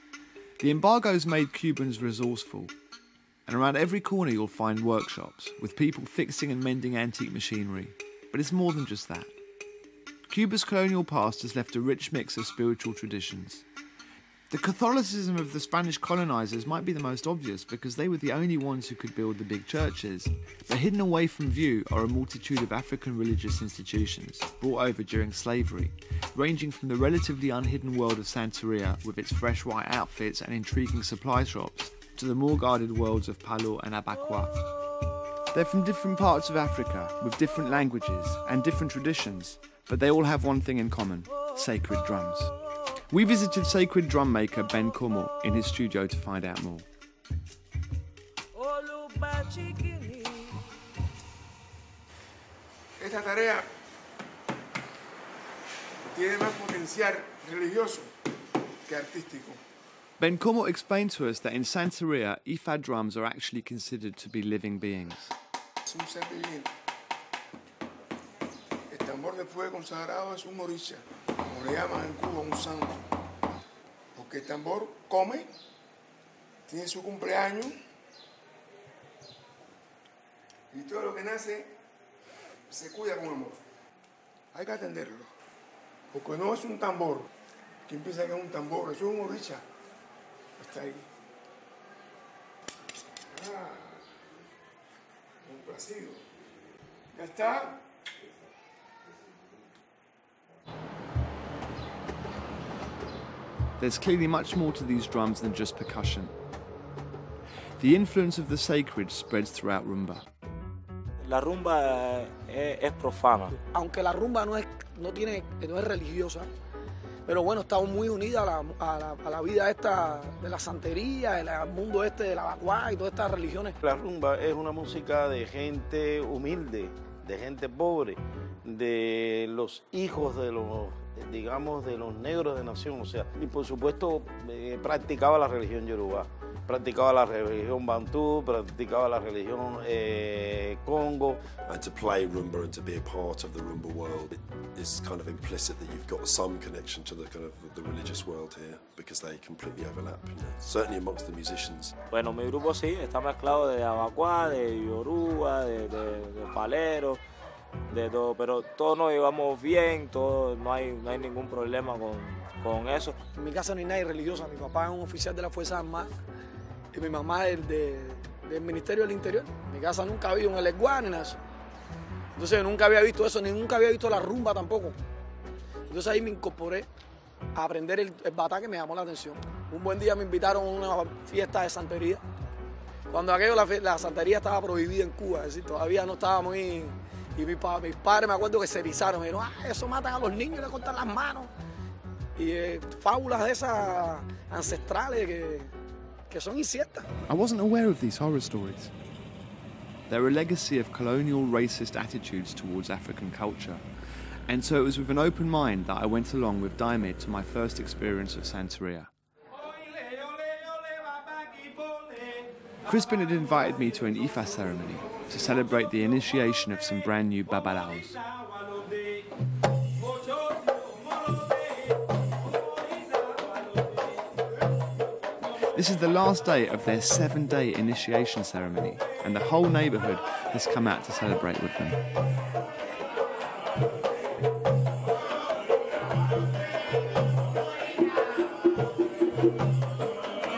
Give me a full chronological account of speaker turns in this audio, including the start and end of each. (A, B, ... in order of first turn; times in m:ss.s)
0:00.6-0:02.7 A
0:03.5-0:09.3 A
0:10.3-0:13.6 A
0:14.5-0:34.6 A
0:35.5-0:42.5 A
0:43.1-0:46.9 A
0:48.8-0:50.5 B
0:53.0-0:53.7 C
0:56.1-0:58.1 C
0:58.9-0:59.6 C
1:00.2-1:05.3 A
1:05.9-1:06.7 C
1:08.9-1:12.9 C
1:14.2-1:15.5 C
1:16.7-1:17.7 C
1:20.7-1:21.7 C
1:22.7-1:23.6 C
1:24.5-1:25.3 C
1:26.1-1:27.3 C
1:27.9-1:29.6 C
1:30.6-1:31.0 C
1:33.3-1:34.0 C
1:35.4-1:36.2 C
1:37.1-1:37.8 C
1:43.8-1:46.3 A
1:47.8-1:50.2 A
1:51.2-1:53.6 B
1:53.7-1:56.5 D
1:57.3-2:03.7 D
2:03.8-2:21.4 E
2:21.6-2:32.0 F
2:32.1-2:37.2 B
2:37.9-2:43.2 B
2:43.4-2:46.1 D
2:46.9-2:51.4 D
2:52.4-2:55.0 D
2:55.9-2:56.9 D
2:57.6-3:02.2 D
3:03.1-3:11.5 D
3:12.4-3:15.7 D
3:16.3-3:17.1 D
3:17.3-3:18.9 A
3:20.1-3:23.8 A
3:24.5-3:29.1 A
3:32.9-3:38.2 A
3:45.7-3:52.0 A